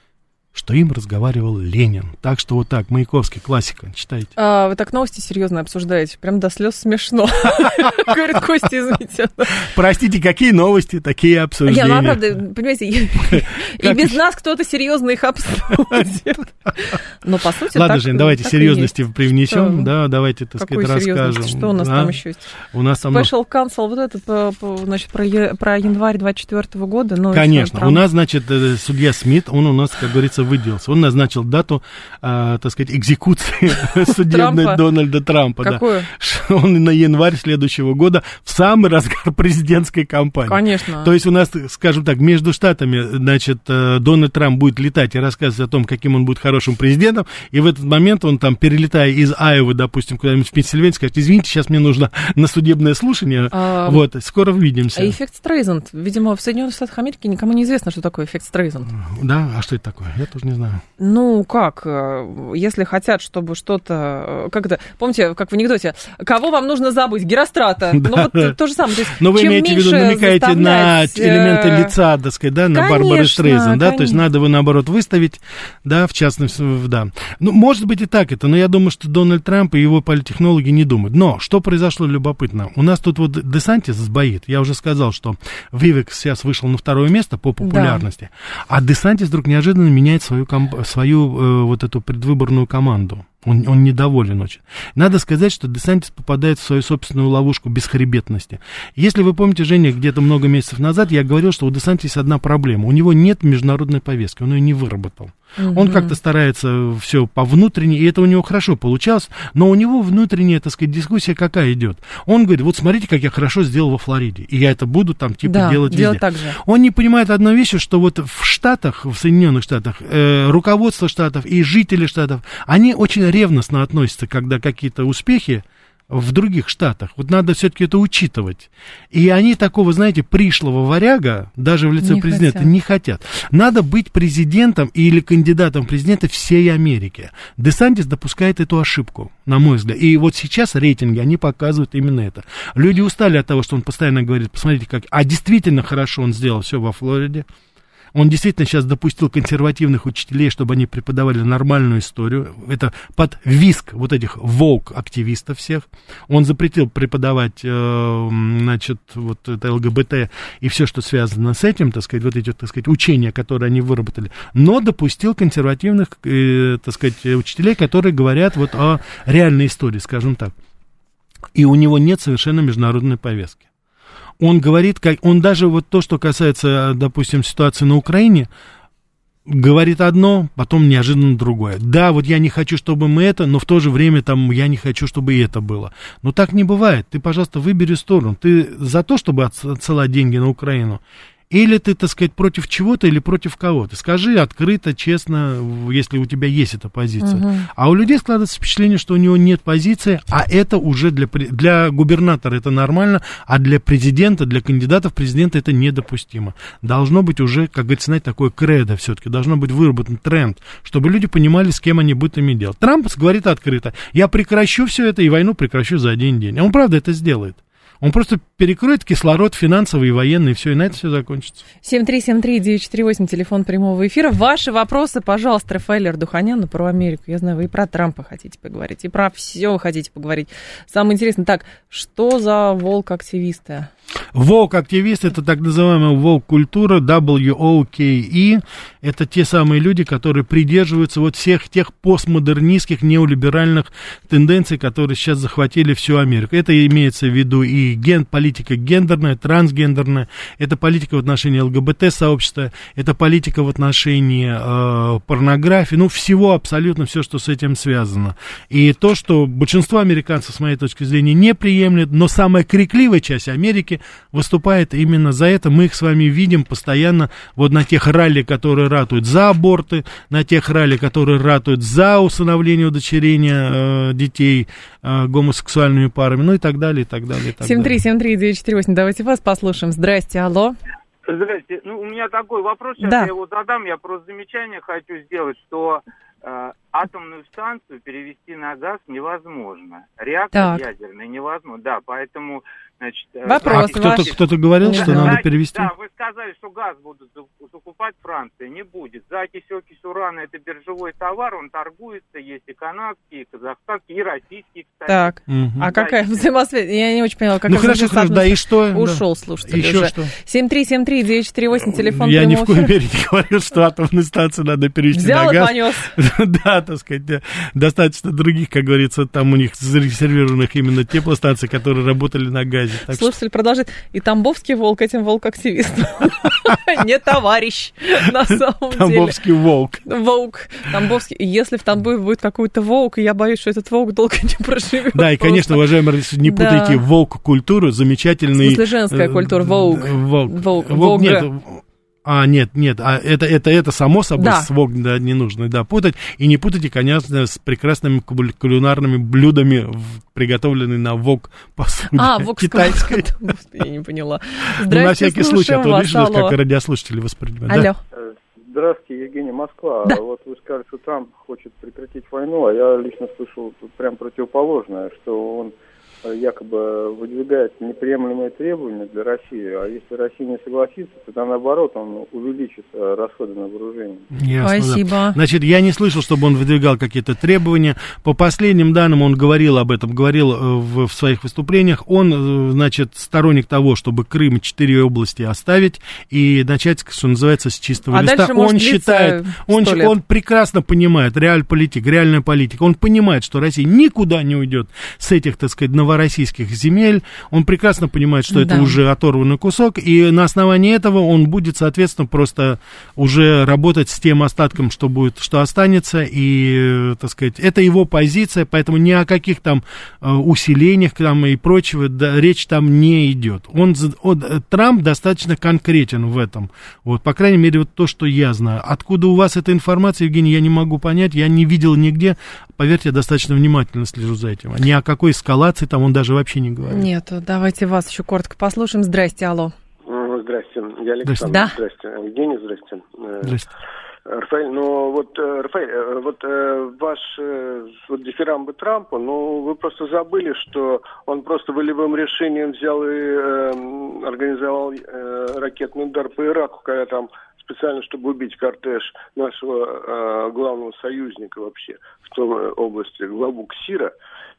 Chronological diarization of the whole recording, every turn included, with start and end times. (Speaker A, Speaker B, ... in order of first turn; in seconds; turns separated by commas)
Speaker A: 0.5-4.3, Speaker B: 4.3-9.6, Speaker A: 9.6-12.2, Speaker B: 11.7-18.9, Speaker A: 13.3-14.2, Speaker A: 17.7-22.2, Speaker B: 19.5-19.9, Speaker B: 20.6-22.5, Speaker A: 22.7-23.3, Speaker B: 23.1-28.0, Speaker A: 27.3-55.1, Speaker B: 34.1-34.8, Speaker B: 35.6-36.1, Speaker B: 40.5-41.1, Speaker B: 53.5-54.0, Speaker B: 54.9-58.9, Speaker A: 58.9-60.8, Speaker B: 61.0-71.9, Speaker A: 67.9-68.5, Speaker A: 69.2-147.5, Speaker B: 72.7-74.2, Speaker B: 87.6-88.0, Speaker B: 105.6-106.1, Speaker B: 115.4-116.6, Speaker B: 132.0-132.7, Speaker A: 148.1-170.5, Speaker A: 171.5-173.6, Speaker A: 174.4-178.5, Speaker A: 179.4-221.6, Speaker B: 197.2-197.7, Speaker B: 221.8-233.9, Speaker A: 234.3-278.0, Speaker B: 277.6-280.8, Speaker C: 281.3-306.5, Speaker B: 283.0-283.3, Speaker B: 290.5-290.9, Speaker B: 293.4-295.4, Speaker A: 293.6-295.9, Speaker B: 305.1-312.9, Speaker A: 305.5-305.9, Speaker A: 307.6-310.3, Speaker A: 311.8-323.3, Speaker B: 315.1-316.1, Speaker B: 323.1-329.4, Speaker A: 328.9-330.0, Speaker B: 330.0-335.8, Speaker A: 335.1-353.2, Speaker B: 336.4-337.0, Speaker B: 338.6-341.5, Speaker B: 344.4-344.7, Speaker B: 352.1-356.6, Speaker A: 354.8-357.9, Speaker B: 357.7-358.0, Speaker D: 358.1-374.3, Speaker A: 374.3-427.1, Speaker B: 374.6-375.4, Speaker B: 388.1-390.1, Speaker B: 398.5-398.9, Speaker B: 426.9-429.7, Speaker E: 430.1-433.5, Speaker A: 431.2-431.5, Speaker B: 431.4-431.8, Speaker A: 433.4-433.7, Speaker E: 434.3-454.1